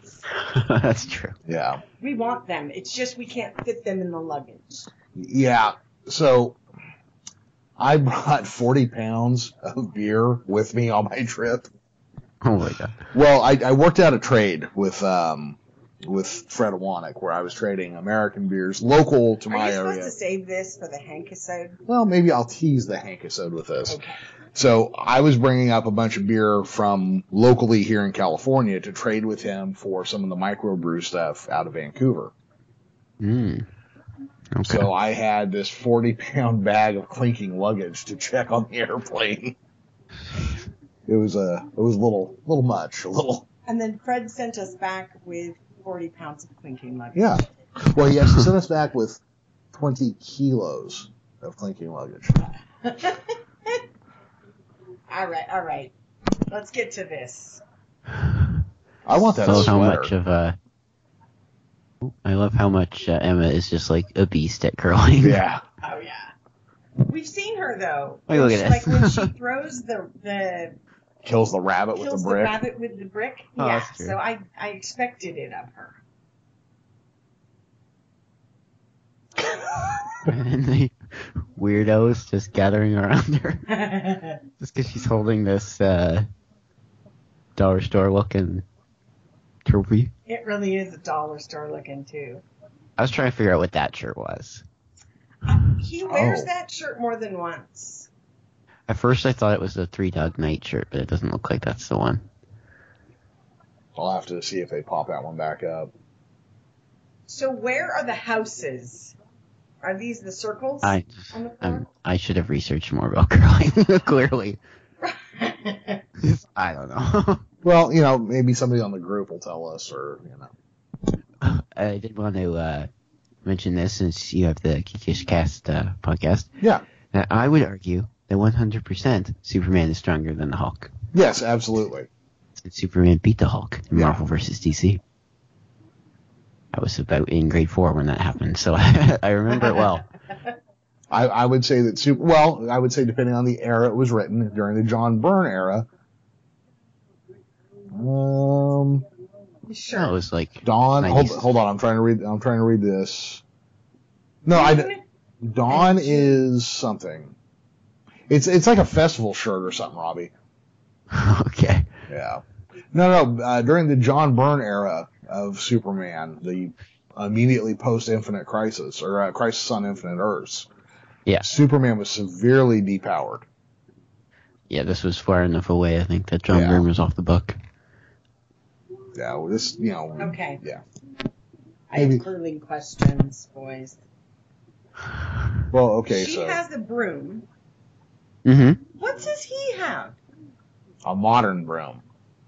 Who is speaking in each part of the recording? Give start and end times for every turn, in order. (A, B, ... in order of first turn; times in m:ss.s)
0:00.4-0:01.4 A
0:01.5-0:01.8 B
0:02.0-0:04.9 C
0:05.2-0:06.6 B
0:07.8-0:11.7 B
0:12.4-0:13.0 A
0:13.1-0:20.1 B
0:19.5-0:21.8 C
0:21.9-0:24.0 B
0:23.9-0:24.2 C
0:24.5-0:32.3 B
0:33.2-0:33.7 A
0:34.5-0:34.9 A
0:34.6-0:39.6 B
0:41.1-0:43.5 B
0:43.7-0:47.4 C
0:47.2-0:49.2 B
0:49.7-0:52.5 B
0:52.8-0:53.8 C
0:55.1-0:55.9 C
0:56.5-0:57.6 C
0:59.0-1:00.1 B
0:59.4-1:00.6 A
1:02.0-1:05.4 A
1:05.2-1:05.6 B
1:05.8-1:06.3 C
1:07.0-1:10.8 C
1:08.3-1:09.3 A
1:11.2-1:12.6 B
1:12.0-1:16.0 C
1:13.6-1:14.2 A
1:20.2-1:23.7 A
1:23.7-1:24.4 C
1:24.6-1:26.3 A
1:27.6-1:28.6 A
1:29.7-1:30.1 A
1:30.3-1:32.4 C
1:33.0-1:34.6 A
1:35.5-1:38.1 C
1:36.1-1:36.5 B
1:38.9-1:42.2 A
1:44.0-1:45.9 B
1:47.3-1:49.2 C
1:49.8-1:51.9 C
1:50.8-1:54.6 A
1:55.0-1:56.0 C
1:56.2-1:57.4 A
1:57.6-2:00.5 B
2:01.4-2:02.9 A
2:03.4-2:06.5 A
2:07.1-2:10.9 A
2:11.1-2:12.1 B
2:12.6-2:15.0 A
2:13.9-2:14.2 B
2:16.7-2:20.1 A
2:21.1-2:25.9 B
2:27.9-2:29.0 B
2:29.7-2:30.1 C
2:29.9-2:31.4 A
2:30.6-2:33.4 B
2:34.4-2:34.9 B
2:34.5-2:35.0 C
2:35.4-2:37.4 B
2:35.7-2:36.4 C
2:38.3-2:40.3 B
2:41.1-2:41.9 A
2:42.1-2:50.7 B
2:51.4-2:53.5 B
2:54.7-2:57.6 A
2:56.5-2:56.9 B
2:59.2-3:00.8 B
3:00.2-3:00.6 C
3:01.9-3:04.0 C
3:02.0-3:02.2 B
3:05.7-3:06.6 B
3:06.1-3:07.5 C
3:08.4-3:08.8 A
3:09.0-3:10.2 C
3:11.0-3:12.0 B